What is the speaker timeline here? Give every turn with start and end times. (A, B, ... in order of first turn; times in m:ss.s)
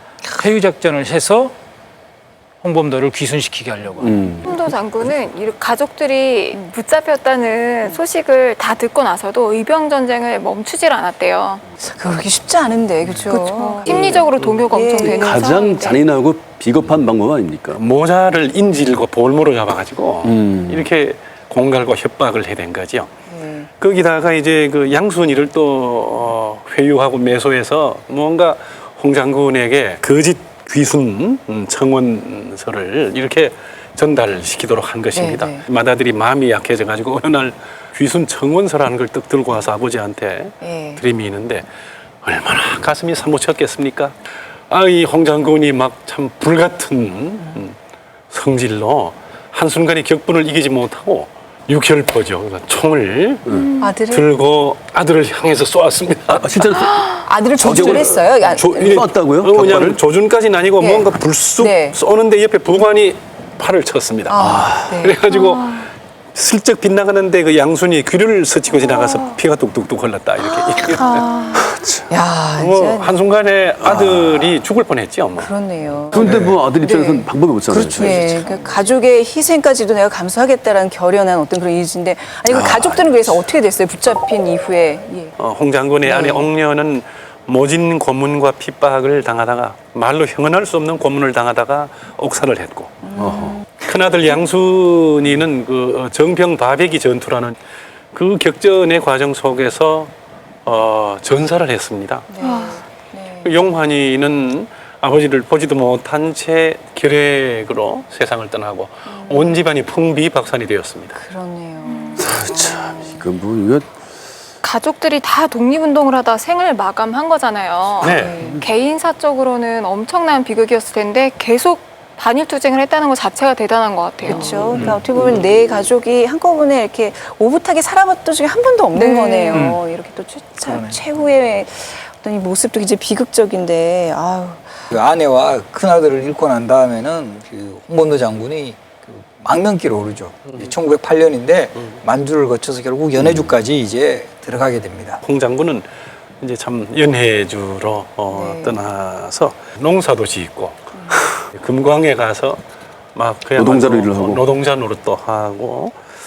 0:00.3-0:01.5 A
0:02.6-0:04.2 A
0:04.0-0:04.5 B
0:04.4-0:11.6 C
0:11.8-0:15.5 D
0:13.3-0:16.0 C
0:14.1-0:14.6 E
0:15.1-0:17.8 B
0:17.7-0:23.1 E
0:20.2-0:20.8 B
0:23.3-0:23.7 D
0:23.8-0:41.6 E
0:35.1-0:35.6 D
0:40.6-0:41.0 D
0:42.2-0:44.2 E
0:44.7-0:47.7 E
0:48.3-0:56.9 E
0:53.8-0:54.3 D
0:56.3-1:00.0 B
0:57.1-0:59.0 D
0:57.9-1:11.3 E
1:00.8-1:02.0 D
1:04.3-1:05.3 D
1:04.4-1:05.0 B
1:10.4-1:13.1 D
1:11.6-1:12.1 B
1:12.6-1:15.5 E
1:13.8-1:14.6 B
1:15.4-1:25.3 D
1:16.1-1:18.4 B
1:22.5-1:23.2 B
1:25.4-1:33.0 E
1:26.0-1:26.5 D
1:33.0-1:33.8 D
1:33.1-1:33.6 B
1:33.8-1:37.6 E
1:38.1-1:40.1 E
1:40.6-1:42.3 E
1:42.3-1:43.6 D
1:42.4-1:42.8 C
1:43.4-1:51.2 E
1:49.1-1:49.6 D
1:51.1-1:53.2 D
1:51.9-1:52.2 C
1:52.2-1:53.9 B
1:54.6-2:04.5 C
1:58.0-1:58.4 E
1:58.0-1:58.6 D
1:58.2-1:58.6 B
2:04.2-2:14.9 D
2:04.7-2:05.0 A
2:08.9-2:09.7 C
2:09.5-2:09.8 A
2:10.6-2:11.0 A
2:14.9-2:25.2 F
2:23.2-2:23.4 B
2:25.2-2:25.8 E
2:26.4-2:32.6 E
2:28.3-2:28.8 D
2:33.1-2:36.0 E
2:33.6-2:34.4 B